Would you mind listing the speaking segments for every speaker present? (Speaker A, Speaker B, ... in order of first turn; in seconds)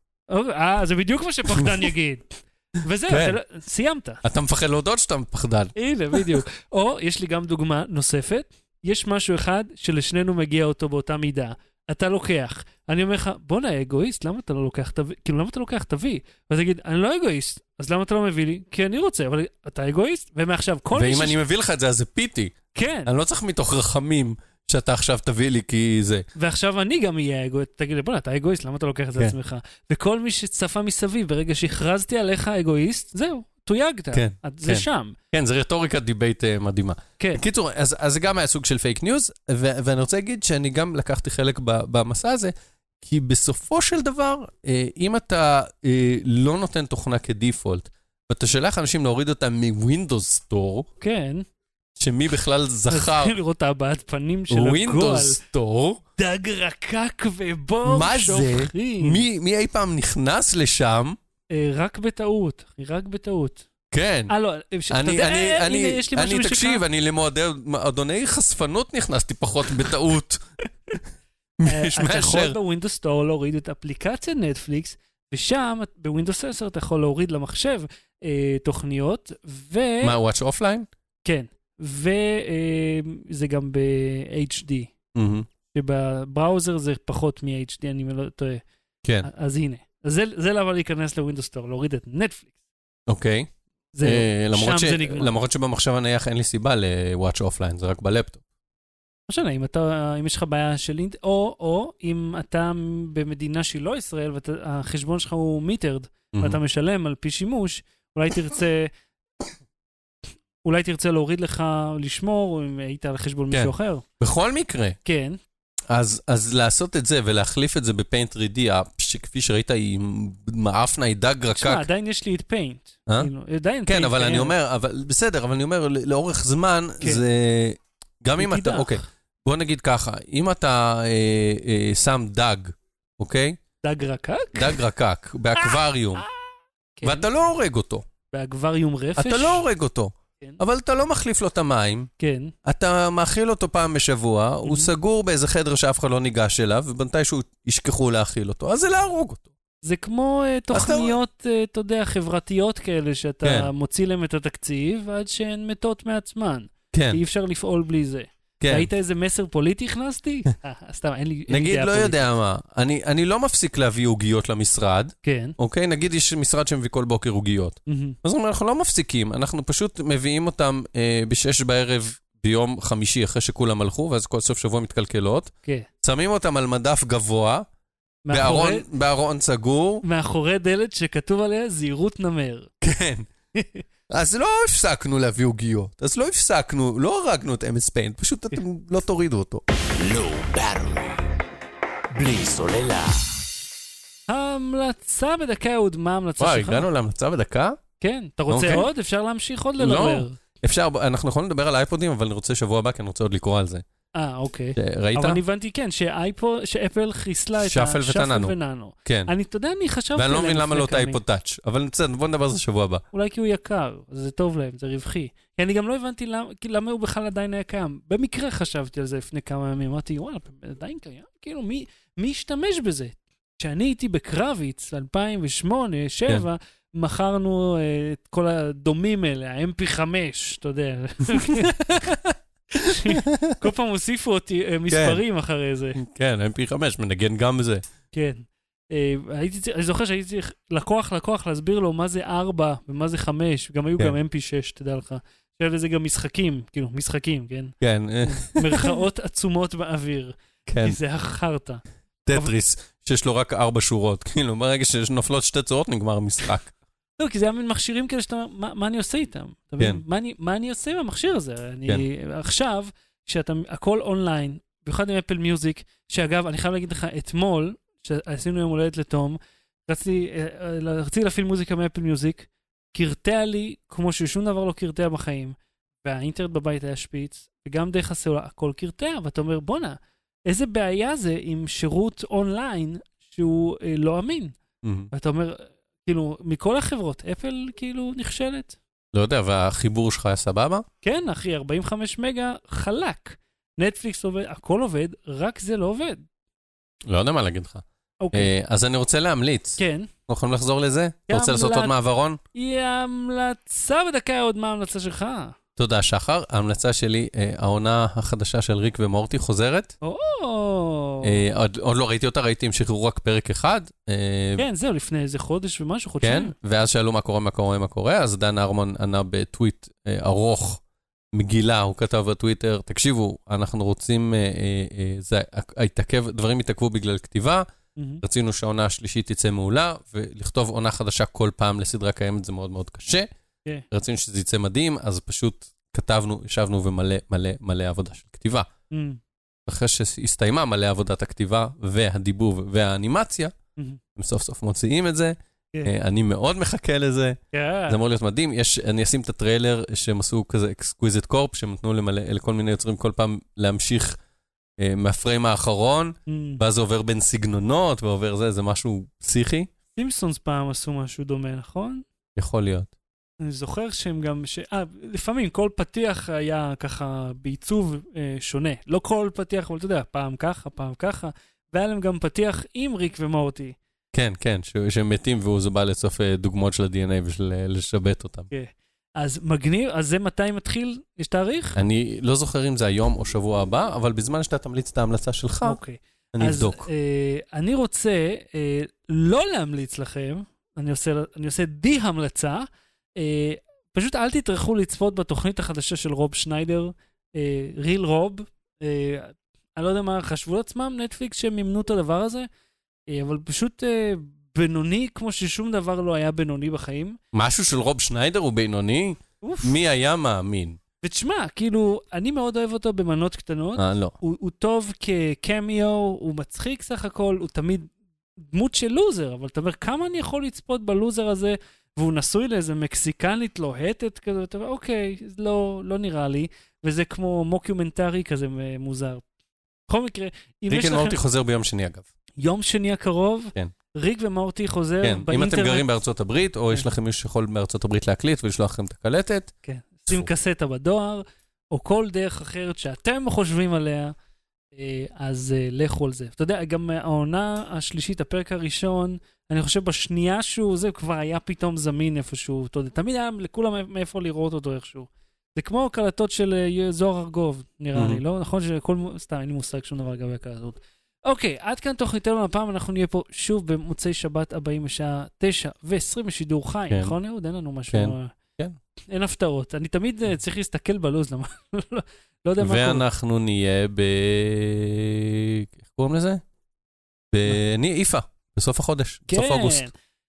Speaker A: 0.3-4.2, 5.7-21.4, 22.7-23.1, 26.4-35.1, 51.0-51.4, 52.9-55.4, 56.2-59.2, 61.5-63.7, 64.3-66.8, 71.7-80.2, 81.2-84.9, 85.7-88.6, 89.2-92.5, 93.9-95.3, 99.3-108.9, 110.6-114.0, 115.0-115.4, 121.5-124.5, 128.4-129.0, 133.8-134.8, 135.6-136.3, 136.9-137.3, 138.3-139.6, 142.2-142.5, 144.6-144.9, 149.8-162.2, 165.2-165.6, 167.9-168.2, 178.2-178.8, 180.0-182.7, 183.5-183.8, 194.3-196.9, 198.0-200.4, 204.1-211.2, 213.1-236.0, 238.1-251.8, 257.2-284.6, 285.1-288.8, 291.0-296.2, 298.2-298.5, 299.8-300.1, 301.3-301.9, 302.5-305.6, 310.0-311.4, 314.6-316.5, 327.9-328.2, 338.9-339.2, 347.5-348.0, 356.3-356.6, 359.9-362.1, 363.4-373.8, 378.5-381.8, 385.6-402.5, 403.1-407.2, 409.4-409.8, 411.0-417.9, 418.5-429.2, 429.9-431.2, 432.4-435.9, 439.6-444.1, 444.7-468.3, 469.1-473.0, 479.3-479.9
Speaker B: 1.5-1.8, 3.1-3.4, 4.2-6.4, 20.9-26.2, 34.1-50.9, 52.0-53.4, 54.5-56.0, 57.8-61.2, 63.9-64.3, 64.9-70.4, 71.6-72.6, 80.0-80.9, 85.1-85.5, 93.1-93.5, 94.0-98.4, 106.3-106.6, 113.5-115.0, 115.9-121.9, 123.8-133.6, 134.5-136.2, 137.0-138.0, 139.2-142.1, 142.6-149.5, 150.7-151.2, 153.4-153.7, 156.9-157.2, 158.6-158.9, 161.5-177.7, 178.3-180.0, 182.8-183.3, 184.1-189.6, 196.4-197.8, 198.5-198.9, 199.8-203.8, 204.8-205.4, 207.6-209.3, 210.1-213.0, 231.3-231.7, 232.8-233.5, 234.9-235.2, 236.0-237.8, 247.8-248.9, 250.7-251.0, 252.2-256.7, 284.8-285.1, 289.1-290.9, 297.1-302.4, 305.8-309.9, 311.2-314.6, 316.2-320.8, 321.3-327.6, 328.2-333.3, 333.9-338.7, 339.6-343.5, 344.1-354.2, 354.8-359.7, 362.4-362.9, 374.1-378.5, 381.7-385.8, 386.3-386.9, 407.3-410.8, 413.8-414.1, 430.7-432.1, 435.0-439.5, 457.9-458.2, 467.9-468.8, 472.6-476.4, 477.3-479.9
Speaker C: 189.8-191.2, 192.1-193.3